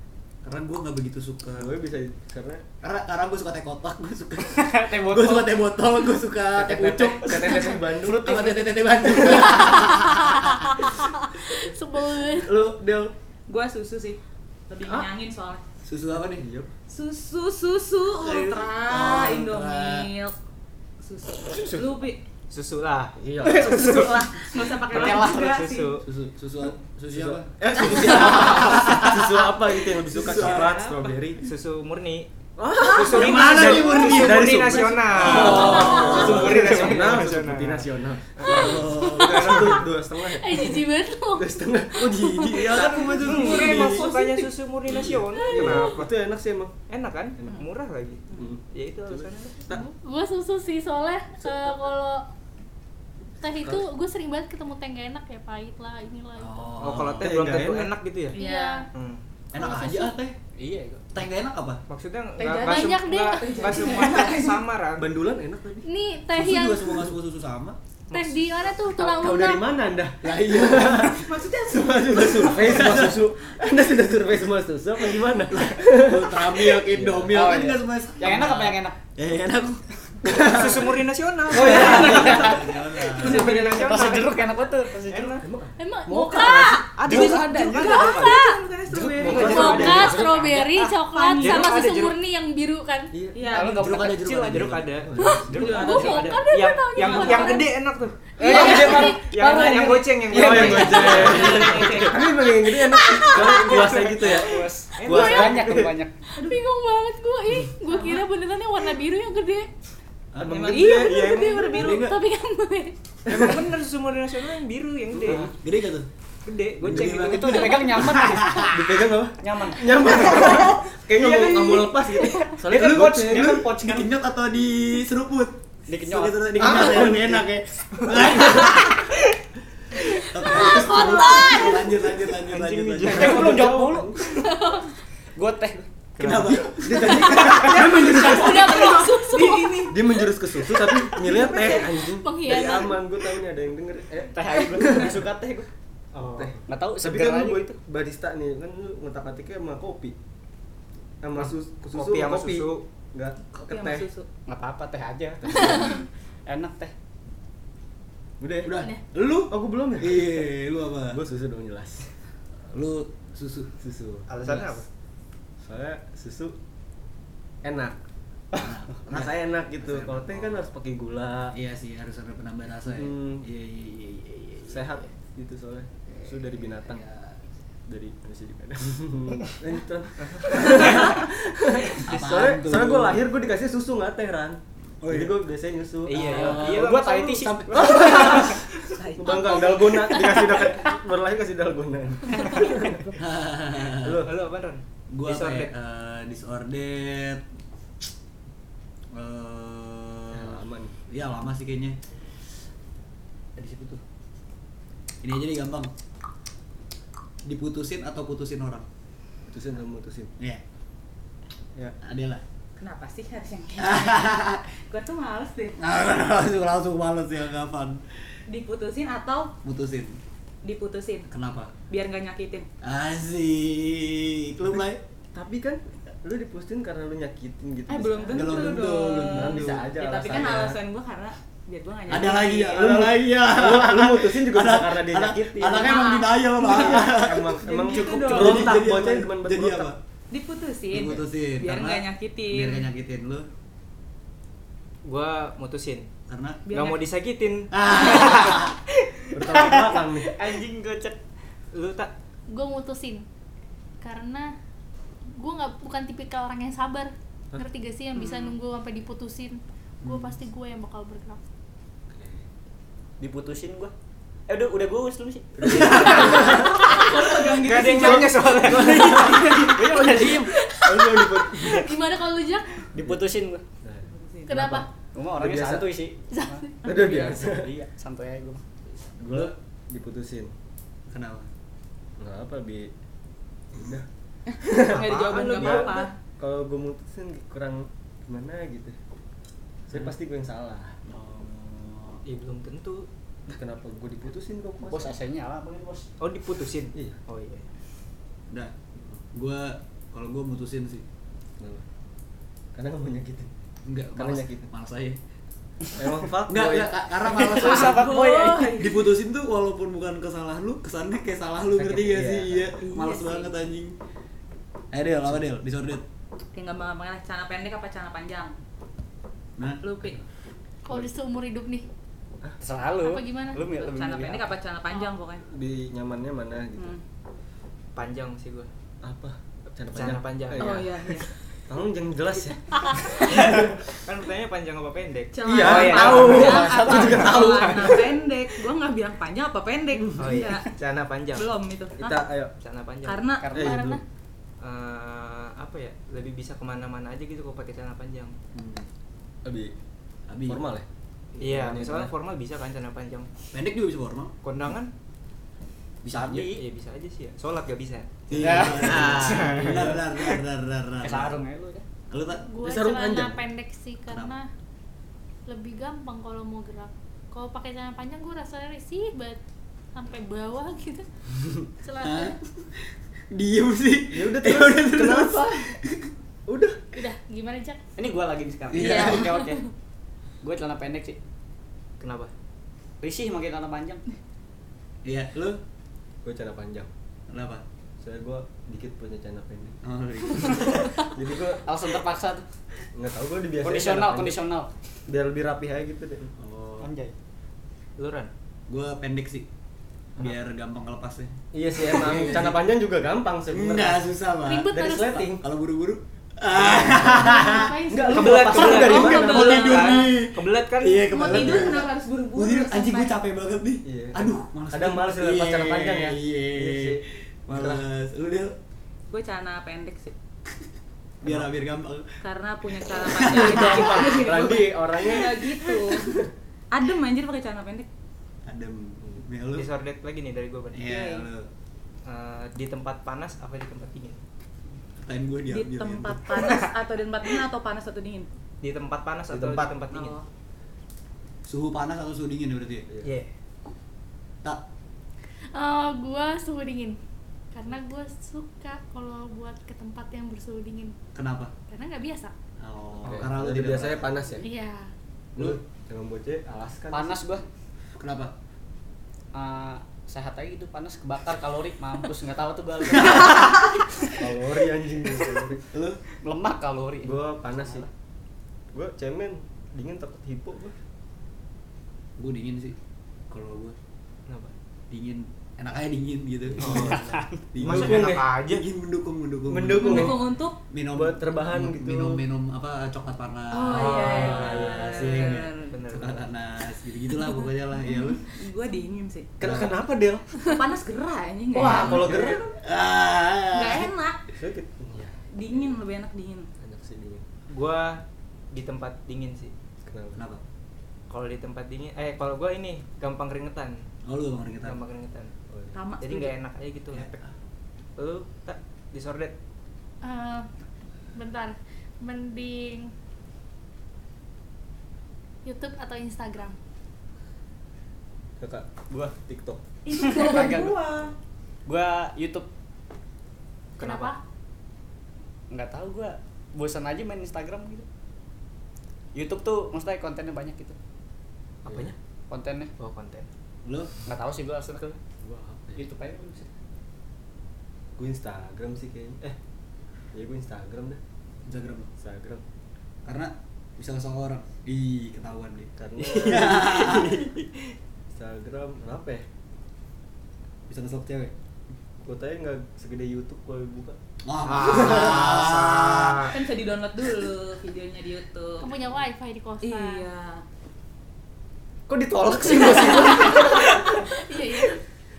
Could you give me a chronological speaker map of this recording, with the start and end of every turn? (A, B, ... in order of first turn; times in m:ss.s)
0:00.4-0:01.7 A
0:01.5-0:02.6 B
0:02.8-0:10.7 A
0:04.6-0:05.5 C
0:06.5-0:08.4 B
0:08.0-0:08.6 C
0:09.2-0:12.6 D
0:12.4-0:13.1 B
0:13.5-0:15.6 E
0:14.8-0:15.1 B
0:15.8-0:16.4 A
0:16.2-0:16.7 B
0:16.9-0:20.4 E
0:18.2-0:20.1 A
0:21.0-0:22.2 E
0:22.5-0:24.3 F
0:23.2-0:24.1 B
0:23.4-0:26.0 E
0:24.9-0:25.8 C
0:25.0-0:26.1 F
0:26.0-0:30.9 A
0:27.1-0:31.4 B
0:30.3-0:32.3 F
0:32.6-0:44.1 B
0:32.9-0:39.8 F
0:33.1-0:37.2 A
0:35.7-0:36.1 E
0:35.8-0:36.1 D
0:38.4-0:39.8 A
0:40.2-0:41.5 D
0:42.0-0:44.0 A
0:42.0-0:42.6 D
0:43.2-0:46.1 F
0:43.3-0:44.5 E
0:44.9-0:46.7 B
0:45.4-0:45.8 D
0:46.9-0:49.7 F
0:48.3-0:49.9 B
0:49.7-0:52.2 D
0:51.4-0:51.7 B
0:53.4-0:56.8 D
0:56.4-0:57.3 A
0:56.8-0:58.4 F
0:57.0-0:57.9 B
0:58.3-0:58.9 D
0:58.3-0:58.8 E
0:58.9-0:59.2 F
0:59.5-1:00.4 A
0:59.6-1:00.1 D
1:00.6-1:01.0 C
1:01.1-1:01.8 A
1:01.9-1:05.1 F
1:02.4-1:04.6 E
1:02.6-1:03.6 D
1:05.0-1:05.8 B
1:05.8-1:07.0 D
1:06.3-1:07.8 A
1:08.1-1:08.7 F
1:08.1-1:09.6 D
1:09.0-1:17.4 B
1:10.2-1:11.2 A
1:11.1-1:12.5 E
1:12.1-1:13.2 A
1:15.5-1:20.7 A
1:17.3-1:19.0 C
1:20.2-1:20.6 B
1:20.3-1:24.5 F
1:21.5-1:22.7 B
1:21.5-1:23.5 A
1:21.6-1:22.6 C
1:23.1-1:24.0 E
1:23.2-1:25.4 C
1:25.1-1:25.4 F
1:25.4-1:26.7 B
1:25.8-1:26.9 D
1:26.4-1:30.1 E
1:26.4-1:32.2 F
1:27.7-1:28.6 D
1:28.9-1:30.5 B
1:28.9-1:30.0 A
1:29.4-1:33.1 D
1:30.7-1:31.8 E
1:33.1-1:33.4 B
1:33.3-1:34.0 E
1:33.5-1:34.5 C
1:33.7-1:35.0 A
1:34.0-1:42.1 F
1:34.9-1:35.6 B
1:35.2-1:37.8 D
1:35.4-1:36.4 E
1:35.5-1:36.2 C
1:37.0-1:37.5 E
1:38.4-1:41.4 C
1:38.4-1:39.5 D
1:40.2-1:45.9 B
1:40.5-1:42.4 E
1:41.1-1:42.0 D
1:42.6-1:43.9 D
1:43.5-1:46.1 C
1:43.7-1:44.3 F
1:45.0-1:45.8 F
1:45.1-1:45.5 D
1:46.4-1:49.7 D
1:47.9-1:48.2 E
1:50.3-1:50.7 A
1:50.4-1:52.0 B
1:50.4-1:51.3 F
1:50.5-1:52.0 E
1:50.9-1:52.9 D
1:51.7-1:52.2 A
1:53.3-1:55.5 F
1:53.3-1:53.6 B
1:55.1-1:55.5 B
1:55.3-1:56.1 A
1:56.4-1:57.5 F
1:56.8-1:59.0 A
1:56.9-1:58.7 C
1:58.7-2:03.6 B
1:59.4-2:00.5 C
2:01.4-2:02.5 D
2:02.6-2:04.1 C
2:02.7-2:09.2 A
2:05.9-2:07.2 C
2:06.6-2:07.4 B
2:08.2-2:08.7 B
2:10.2-2:13.7 A
2:10.2-2:11.9 D
2:12.5-2:14.3 C
2:13.0-2:14.3 B
2:14.3-2:14.9 D
2:15.3-2:15.8 C
2:16.2-2:16.7 F
2:16.2-2:18.0 A
2:16.8-2:19.0 B
2:17.5-2:20.0 E
2:18.1-2:19.9 D
2:19.8-2:25.2 B
2:20.9-2:23.1 D
2:24.3-2:25.7 C
2:26.1-2:26.5 F
2:26.3-2:30.1 B
2:26.7-2:27.8 C
2:31.2-2:34.1 B
2:31.4-2:32.8 F
2:33.7-2:34.3 E
2:34.4-2:35.9 C
2:35.4-2:36.0 B
2:36.4-2:36.9 C
2:38.4-2:38.8 B
2:38.6-2:41.2 A
2:39.5-2:40.5 B
2:41.1-2:42.1 B
2:42.6-2:43.7 A
2:43.8-2:44.3 B
2:44.3-2:44.9 F
2:45.6-2:46.6 B
2:47.6-2:48.0 B
2:48.5-2:50.7 A
2:49.0-2:51.5 B
2:51.5-2:55.0 A
2:52.9-2:53.4 B
2:54.7-2:57.0 B
2:56.8-2:57.4 A
2:57.9-3:06.6 B
3:00.2-3:01.2 F
3:01.9-3:02.3 F
3:02.0-3:03.2 A
3:05.0-3:05.4 A
3:06.0-3:08.5 F
3:06.1-3:08.5 A
3:06.4-3:08.5 C
3:07.7-3:13.1 B
3:08.9-3:10.7 E
3:10.1-3:10.6 C
3:12.4-3:13.1 E
3:13.2-3:14.2 A
3:13.9-3:14.3 B
3:14.2-3:15.7 F
3:15.1-3:17.4 A
3:19.1-3:22.0 A
3:20.3-3:20.9 B
3:23.6-3:24.0 A
3:25.2-3:25.9 A
3:27.4-3:28.9 A
3:29.5-3:30.3 B
3:32.0-3:32.4 A
3:32.8-3:35.8 E
3:33.8-3:34.6 A
3:35.8-3:38.2 A
3:38.5-3:39.5 E
3:39.6-3:40.2 A
3:40.6-3:41.3 E
3:41.3-3:41.7 A
3:41.9-3:42.7 E
3:42.8-3:45.0 A
3:45.3-3:50.8 B
3:47.9-3:52.8 E
3:48.3-3:50.5 A
3:52.1-4:00.0 A
3:52.6-3:56.0 B
3:55.7-3:58.7 E
3:56.6-3:59.9 B
4:00.3-4:02.9 E
4:00.9-4:03.5 A
4:05.0-4:06.1 F
4:06.3-4:06.6 A
4:06.6-4:07.0 E
4:06.7-4:08.8 F
4:07.7-4:08.8 A
4:09.3-4:10.3 B
4:09.4-4:11.2 C
4:11.7-4:12.1 F
4:12.5-4:13.2 D
4:14.0-4:14.5 D
4:15.4-4:21.4 D
4:18.2-4:18.5 E
4:22.1-4:22.4 B
4:23.2-4:23.9 C
4:24.5-4:26.6 C
4:25.6-4:26.7 B
4:25.8-4:30.3 E
4:27.4-4:29.5 F
4:28.1-4:31.9 B
4:28.7-4:30.5 C
4:30.6-4:32.9 D
4:32.9-4:33.6 C
4:33.8-4:36.0 B
4:34.0-4:34.6 E
4:34.5-4:34.9 D
4:35.1-4:38.6 C
4:36.3-4:37.0 D
4:36.8-4:37.7 B
4:39.2-4:40.5 B
4:41.1-4:41.5 A
4:42.2-4:42.9 B
4:43.7-4:44.0 B
4:44.5-4:46.2 E
4:44.6-4:45.0 B
4:44.9-4:46.0 F
4:45.5-4:49.0 B
4:49.9-4:51.0 B
4:51.0-4:52.2 A
4:52.2-4:53.1 F
4:53.5-4:55.2 B
4:54.9-4:56.1 C
4:56.2-4:57.7 F
4:58.5-5:01.0 A
5:01.6-5:01.8 B
5:02.7-5:03.5 B
5:03.8-5:05.2 A
5:04.2-5:04.6 B
5:05.9-5:07.0 B
5:06.4-5:14.0 A
5:07.2-5:08.8 C
5:07.6-5:09.0 E
5:11.8-5:12.7 B
5:12.8-5:13.6 E
5:14.9-5:16.0 A
5:16.5-5:18.5 E
5:19.6-5:20.2 A
5:19.8-5:20.2 E
5:20.8-5:21.8 D
5:22.6-5:24.5 C
5:23.0-5:23.6 D
5:23.7-5:25.4 E
5:25.5-5:27.0 B
5:26.8-5:27.0 E
5:27.9-5:28.7 F
5:29.0-5:33.8 B
5:29.9-5:31.2 F
5:30.6-5:31.3 E
5:33.2-5:38.1 F
5:35.3-5:40.7 E
5:35.4-5:37.7 B
5:35.6-5:37.4 C
5:40.2-5:41.5 F
5:41.3-5:42.2 E
5:42.0-5:42.5 B
5:42.6-5:43.2 F
5:43.0-5:43.5 E
5:43.4-5:44.0 C
5:43.5-5:44.0 B
5:43.6-5:44.0 D
5:44.6-5:48.3 F
5:48.5-5:48.8 A
5:49.4-5:49.7 B
5:50.3-5:50.6 A
5:50.4-5:52.1 B
5:51.4-5:53.3 F
5:53.5-5:54.3 A
5:54.4-5:54.9 F
5:56.0-5:56.5 A
5:56.1-5:56.6 C
5:56.4-5:59.9 F
5:58.3-6:01.4 A
5:58.4-6:00.0 B
5:58.4-5:59.9 C
6:01.0-6:01.8 C
6:02.1-6:02.5 A
6:02.5-6:04.5 D
6:02.6-6:03.4 B
6:04.1-6:04.3 A
6:05.5-6:09.4 D
6:09.9-6:11.0 D
6:11.8-6:12.4 D
6:12.0-6:16.1 A
6:14.1-6:15.8 B
6:16.5-6:16.8 B
6:16.9-6:17.8 D
6:18.0-6:19.6 C
6:18.7-6:19.4 A
6:18.8-6:19.3 E
6:20.4-6:21.2 C
6:22.0-6:22.3 F
6:23.0-6:24.0 C
6:25.0-6:25.6 A
6:26.2-6:26.9 B
6:27.3-6:27.6 A
6:28.0-6:29.8 B
6:29.8-6:30.9 A
6:30.3-6:31.6 B
6:31.6-6:32.4 C
6:32.9-6:34.4 B
6:33.6-6:34.7 C
6:35.1-6:36.3 B
6:36.4-6:36.9 A
6:36.8-6:37.1 C
6:38.0-6:38.3 F
6:38.7-6:39.4 A
6:40.2-6:42.6 A
6:41.5-6:44.1 B
6:43.5-6:47.8 A
6:44.4-6:45.3 D
6:44.7-6:45.4 B
6:46.5-6:49.6 B
6:47.1-6:49.0 D
6:48.1-6:50.1 E
6:48.1-6:51.7 F
6:49.1-6:58.5 A
6:51.1-6:53.2 E
6:53.8-6:57.8 B
6:59.1-7:00.1 E
7:01.2-7:02.2 A
7:02.2-7:06.1 E
7:03.0-7:04.0 A
7:03.4-7:06.3 B
7:06.7-7:07.9 E
7:08.4-7:09.7 A
7:09.5-7:10.9 F
7:10.7-7:11.5 A
7:10.8-7:11.3 E
7:12.0-7:14.2 F
7:15.0-7:16.2 A
7:15.5-7:18.3 E
7:18.6-7:20.2 F
7:19.3-7:19.7 B
7:19.9-7:20.2 E
7:21.4-7:22.8 A
7:23.0-7:23.3 F
7:25.5-7:27.0 D
7:27.5-7:30.9 D
7:31.1-7:31.5 A
7:31.7-7:32.3 D
7:32.6-7:34.2 A
7:33.0-7:33.3 F
7:33.1-7:34.5 B
7:34.4-7:34.9 D
7:35.3-7:37.2 B
7:36.9-7:37.4 C
7:38.0-7:38.3 A
7:39.3-7:43.3 C
7:43.0-7:43.6 A
7:44.1-7:45.6 B
7:45.7-7:46.0 A
7:46.2-7:47.9 C
7:47.0-7:47.9 B
7:48.7-7:50.8 B
7:52.2-7:52.8 A
7:53.3-7:53.8 A
7:54.3-7:54.5 F
7:54.9-7:57.0 A
7:56.6-7:57.0 B
7:56.6-7:58.6 F
7:56.8-7:57.4 C
7:57.5-8:00.2 A
7:57.6-7:58.2 B
7:59.5-8:00.2 B
7:59.7-8:00.6 E
8:00.7-8:08.2 A
8:00.9-8:02.2 B
8:03.5-8:05.8 E
8:03.6-8:06.2 F
8:07.9-8:09.3 E
8:09.4-8:10.3 B
8:09.4-8:09.7 A
8:10.4-8:12.4 E
8:11.5-8:12.4 B
8:11.5-8:13.9 A
8:11.8-8:12.4 F
8:13.5-8:14.2 E
8:14.4-8:15.8 B
8:15.3-8:16.5 E
8:16.6-8:17.2 B
8:17.5-8:19.5 F
8:19.8-8:20.2 B
8:20.1-8:20.4 A
8:21.1-8:23.8 F
8:24.0-8:24.8 A
8:24.6-8:25.3 F
8:25.5-8:25.8 B
8:25.7-8:26.3 E
8:26.0-8:27.1 F
8:26.9-8:27.3 A
8:28.0-8:29.3 F
8:30.0-8:30.5 D
8:31.1-8:32.9 D
8:35.4-8:36.6 D
8:38.4-8:39.6 B
8:39.8-8:41.1 E
8:40.1-8:40.8 C
8:41.6-8:42.5 C
8:43.8-8:44.2 D
8:43.8-8:44.1 F
8:45.5-8:47.8 C
8:49.1-8:50.8 C
8:51.6-8:52.0 F
8:51.6-8:51.9 B
8:52.3-8:52.7 C
8:52.8-8:53.3 F
8:53.6-8:53.9 A
8:54.1-8:55.0 C
8:55.2-8:55.8 B
8:55.8-8:56.5 C
8:58.0-8:59.4 B
9:00.1-9:01.0 B
9:01.4-9:01.9 A
9:02.0-9:02.4 B
9:03.0-9:07.3 A
9:05.8-9:07.2 B
9:06.8-9:07.4 F
9:08.1-9:09.2 B
9:10.7-9:11.3 A
9:12.0-9:14.0 B
9:14.2-9:16.3 A
9:14.4-9:16.4 F
9:14.7-9:15.3 B
9:16.3-9:18.7 E
9:18.6-9:20.0 D
9:19.6-9:20.4 E
9:21.9-9:24.0 B
9:24.0-9:24.8 D